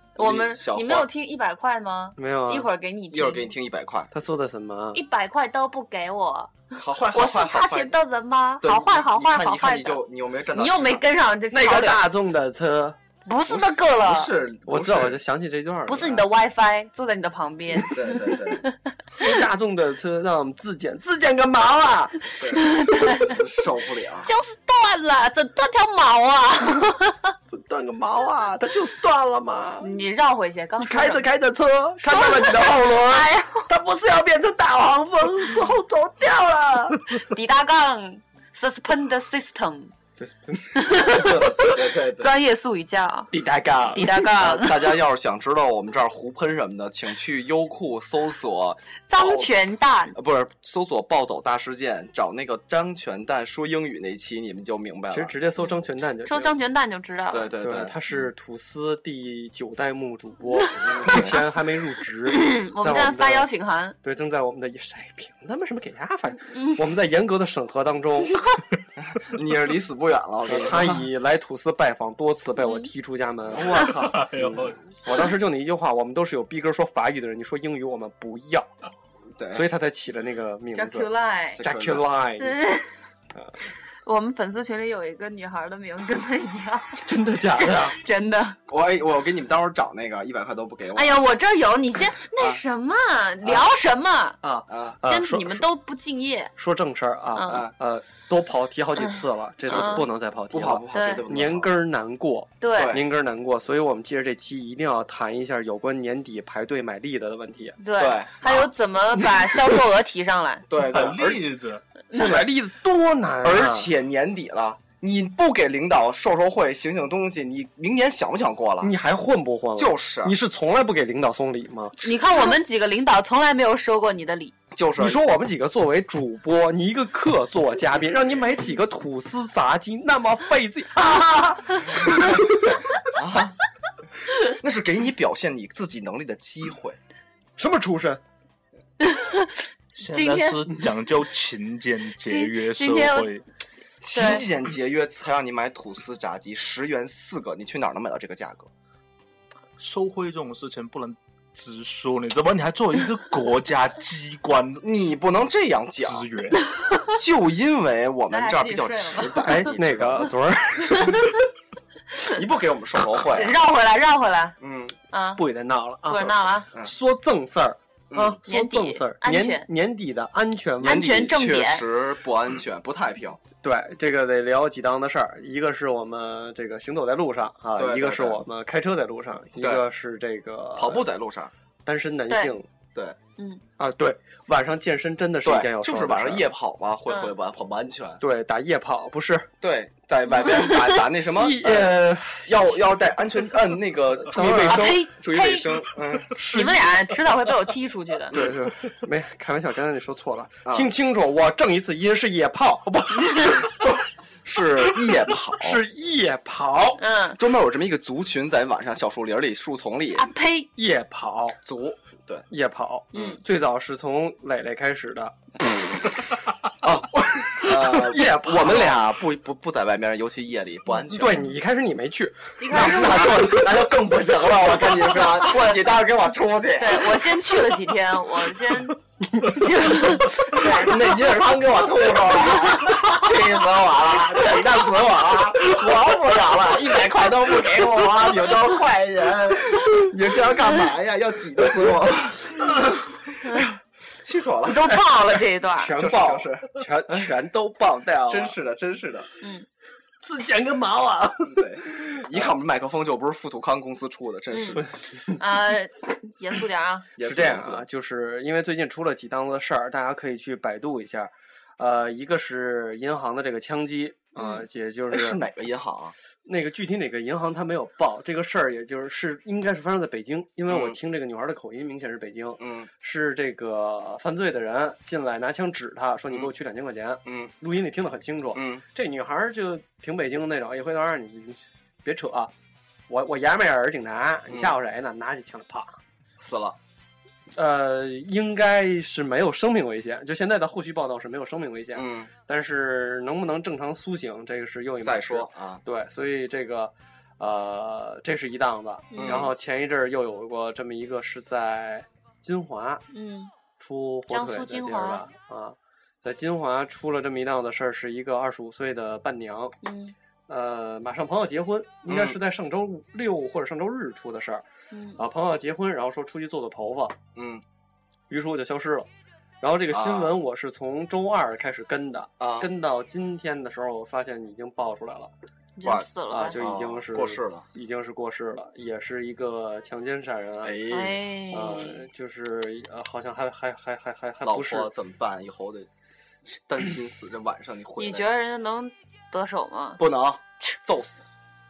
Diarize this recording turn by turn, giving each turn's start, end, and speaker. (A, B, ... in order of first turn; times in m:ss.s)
0:00.2-0:01.1 A
0:00.2-0:03.5 B
0:02.2-0:02.7 C
0:03.1-0:04.1 A
0:04.1-0:05.0 C
0:04.9-0:10.0 B
0:06.8-0:08.0 A
0:08.6-0:11.0 A
0:10.5-0:12.0 B
0:11.5-0:13.0 C
0:13.2-0:14.3 B
0:13.5-0:15.2 A
0:14.7-0:16.3 C
0:15.9-0:17.9 B
0:17.9-0:18.6 A
0:19.2-0:22.2 C
0:22.4-0:24.3 A
0:22.5-0:23.4 B
0:24.2-0:27.3 B
0:27.5-0:29.9 C
0:29.8-0:31.2 B
0:30.8-0:37.1 C
0:32.0-0:33.6 B
0:37.3-0:39.9 B
0:40.2-0:41.0 C
0:40.8-0:43.3 B
0:40.9-0:42.3 A
0:43.3-0:44.2 C
0:43.9-0:45.0 B
0:44.3-0:49.5 A
0:49.1-0:50.1 B
0:50.1-0:55.4 A
0:55.1-0:56.5 C
0:56.2-0:57.5 B
0:57.3-0:57.9 A
0:57.6-1:03.5 C
1:00.8-1:01.4 A
1:02.3-1:04.0 B
1:04.0-1:08.4 C
1:09.0-1:11.1 A
1:10.5-1:18.7 C
1:12.6-1:12.9 B
1:13.5-1:14.3 A
1:13.9-1:14.8 D
1:19.4-1:19.7 A
1:19.5-1:21.1 C
1:20.7-1:21.6 B
1:21.5-1:22.0 A
1:21.6-1:22.7 C
1:22.4-1:22.9 B
1:24.0-1:27.0 B
1:27.0-1:28.0 C
1:27.5-1:28.6 B
1:28.7-1:31.2 A
1:30.9-1:34.4 B
1:33.4-1:33.7 A
1:34.4-1:35.6 C
1:34.7-1:35.0 A
1:35.0-1:36.5 B
1:36.6-1:47.8 C
1:37.3-1:37.6 B
1:39.6-1:41.7 A
1:39.7-1:40.0 B
1:40.9-1:41.2 B
1:42.6-1:43.0 B
1:42.7-1:43.0 A
1:47.8-1:50.7 B
1:48.0-1:48.7 A
1:50.7-1:51.5 A
1:50.8-1:51.8 D
1:52.1-1:53.9 C
1:52.1-1:52.5 A
1:53.4-1:58.9 A
1:58.8-2:02.0 C
1:59.7-2:00.3 A
2:02.0-2:04.5 B
2:04.7-2:05.2 A
2:05.0-2:12.4 C
2:12.1-2:12.4 A
2:13.1-2:13.5 A
2:14.4-2:17.0 A
2:17.6-2:18.2 C
2:19.0-2:20.7 B
2:20.0-2:23.4 D
2:22.2-2:23.3 B
2:24.0-2:28.7 A
2:24.1-2:24.4 B
2:29.8-2:34.8 D
2:34.8-2:36.3 A
2:36.0-2:36.6 D
2:37.1-2:40.3 A
2:38.3-2:39.4 B
2:39.4-2:41.3 C
2:42.2-2:43.6 A
2:43.2-2:44.6 B
2:44.6-2:45.0 A
2:45.1-2:45.4 B
2:45.4-2:51.1 C
2:46.1-2:46.7 B
2:48.1-2:48.4 A
2:48.5-2:49.6 B
2:50.8-2:53.4 A
2:50.8-2:51.8 B
2:53.6-3:01.1 C
2:57.8-2:58.4 A
2:59.6-2:59.8 A
3:00.8-3:01.5 A
3:01.8-3:02.7 C
3:02.3-3:02.5 B
3:03.8-3:06.5 C
3:05.4-3:08.2 A
3:07.1-3:07.3 B
3:08.2-3:09.5 C
3:09.6-3:16.3 A
3:10.3-3:11.0 B
3:11.3-3:12.7 C
3:14.2-3:15.0 C
3:14.4-3:18.3 B
3:16.3-3:16.8 C
3:18.3-3:23.7 C
3:20.6-3:20.9 A
3:23.8-3:25.8 A
3:25.6-3:27.0 C
3:27.0-3:27.4 B
3:27.4-3:30.3 A
3:30.1-3:30.7 B
3:30.7-3:31.6 C
3:31.6-3:32.4 A
3:32.5-3:35.3 C
3:33.1-3:33.4 A
3:35.6-3:36.0 A
3:36.8-3:41.4 A
3:37.4-3:39.0 C
3:41.1-3:43.6 C
3:42.6-3:43.5 B
3:42.7-3:47.4 A
3:45.5-3:45.8 B
3:46.8-3:51.0 B
3:50.5-4:02.7 A
4:04.1-4:04.9 A
4:04.6-4:06.0 B
4:05.7-4:08.6 C
4:05.9-4:07.3 A
4:08.3-4:09.3 A
4:10.2-4:12.4 C
4:11.4-4:14.8 A
4:14.5-4:14.8 B
4:14.7-4:15.4 C
4:15.4-4:17.1 B
4:17.2-4:17.8 A
4:17.2-4:25.4 C
4:24.4-4:24.6 B
4:25.1-4:26.1 A
4:26.4-4:42.5 C
4:30.7-4:31.0 A
4:32.6-4:32.9 A
4:37.2-4:37.5 A
4:38.5-4:38.8 A
4:43.1-4:46.0 C
4:44.5-4:44.8 A
4:46.4-4:46.8 A
4:47.6-5:03.0 C
4:51.9-4:52.3 A
4:55.0-4:55.8 A
4:59.1-4:59.4 B
4:59.1-4:59.5 A
5:03.1-5:03.5 B
5:03.8-5:09.8 C
5:04.3-5:05.3 B
5:09.8-5:10.1 B
5:10.5-5:14.6 C
5:12.0-5:12.4 A
5:14.9-5:15.2 B
5:15.2-5:17.2 C
5:17.3-5:17.6 A
5:18.3-5:19.1 C
5:19.6-5:25.3 C
5:19.9-5:20.4 A
5:22.4-5:22.7 A
5:25.8-5:26.6 B
5:25.8-5:27.6 A
5:26.3-5:30.8 C
5:30.6-5:31.2 A
5:30.9-5:32.0 B
5:31.5-5:34.9 C
5:34.4-5:35.9 A
5:36.4-5:38.3 A
5:38.0-5:40.0 B
5:40.0-5:41.2 A